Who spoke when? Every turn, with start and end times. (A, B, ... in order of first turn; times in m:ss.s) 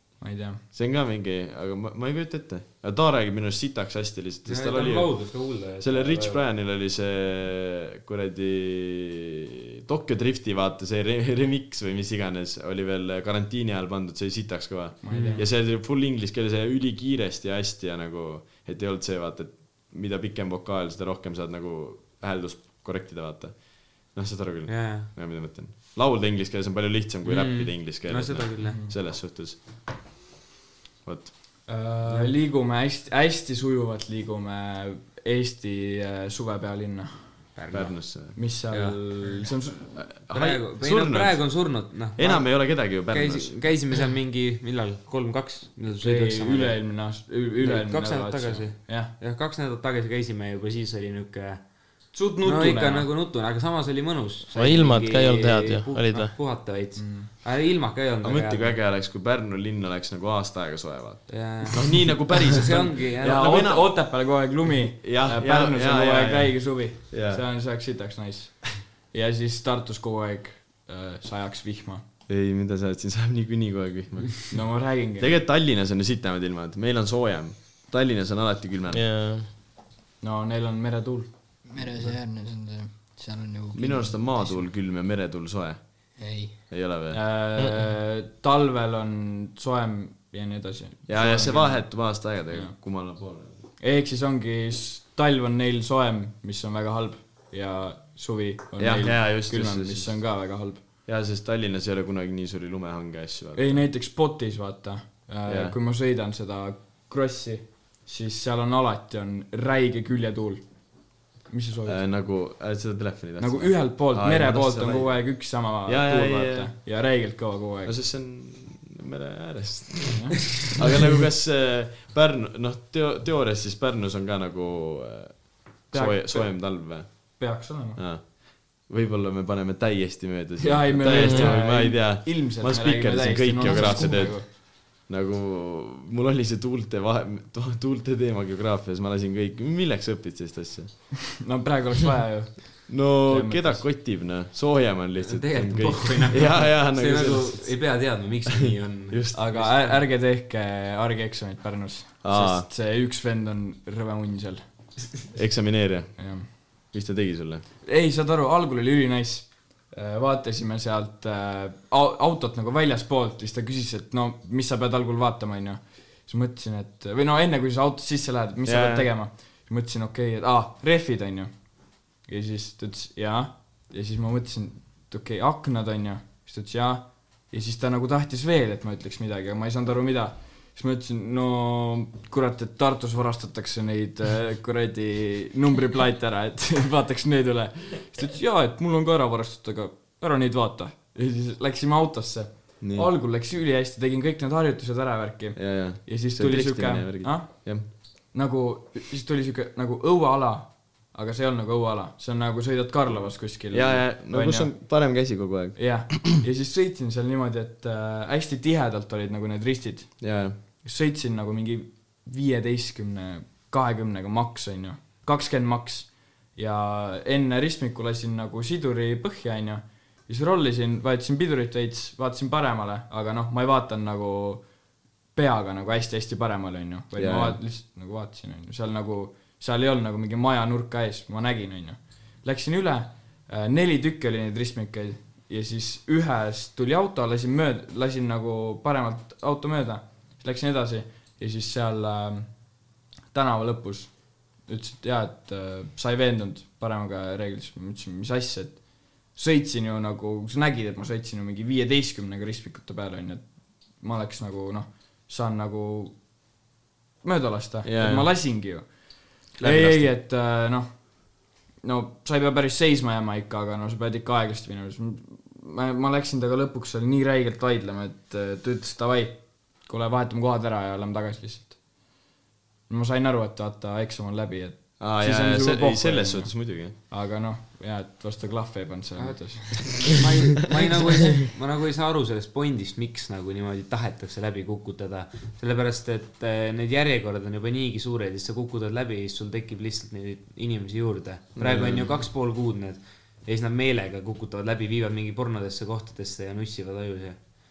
0:00.2-0:00.6 A
0:00.7-0:29.6 B
0:04.4-0:06.4 C
0:15.0-0:15.4 A
0:15.1-0:15.4 C
0:24.7-0:25.1 C
0:27.2-0:28.8 C
0:28.6-0:28.9 A
0:31.0-0:31.6 B
0:31.7-0:37.6 A
0:32.0-0:32.4 C
0:37.6-0:38.2 C
0:37.7-0:38.4 B
0:38.3-0:39.9 A
0:38.7-0:39.5 C
0:40.0-0:43.6 B
0:40.3-0:47.0 C
0:46.0-0:49.1 A
0:47.6-0:58.8 C
0:52.1-0:53.1 A
0:54.5-0:56.5 D
0:57.0-0:57.3 A
0:58.2-1:07.4 B
1:01.3-1:03.7 C
1:03.2-1:12.0 A
1:12.3-1:19.0 B
1:14.5-1:15.4 A
1:18.9-1:19.5 D
1:20.2-1:22.1 A
1:21.6-1:24.7 E
1:23.7-1:26.1 B
1:26.2-1:26.6 E
1:26.7-1:27.2 B
1:27.1-1:32.8 A
1:27.6-1:27.8 D
1:31.1-1:33.6 B
1:33.8-1:40.8 A
1:38.8-1:40.2 B
1:41.0-1:43.8 B
1:43.6-1:50.7 A
1:45.4-1:45.8 B
1:51.4-1:52.0 A
1:51.8-1:56.8 B
1:53.4-1:57.9 A
1:57.8-2:21.0 B
2:00.1-2:00.6 A
2:05.9-2:08.0 A
2:10.6-2:14.5 A
2:11.0-2:11.6 D
2:21.4-2:23.9 A
2:22.9-2:27.9 B
2:25.2-2:30.0 C
2:28.4-2:29.4 B
2:29.3-2:34.6 A
2:32.2-2:32.7 B
2:35.3-2:37.6 B
2:36.2-2:36.5 A
2:37.8-3:24.8 A
2:48.6-2:49.1 B
3:12.8-3:13.1 B
3:15.5-3:17.9 B
3:23.7-3:26.2 B
3:25.8-3:44.7 A
3:30.2-3:30.6 B
3:45.3-4:02.8 A
3:47.1-3:47.6 B
4:03.3-4:16.3 A
4:17.2-4:32.0 A
4:17.8-4:18.3 B
4:19.6-4:20.1 B
4:32.9-4:40.1 A
4:35.0-4:37.0 B
4:39.2-4:57.5 C
4:51.6-4:52.2 B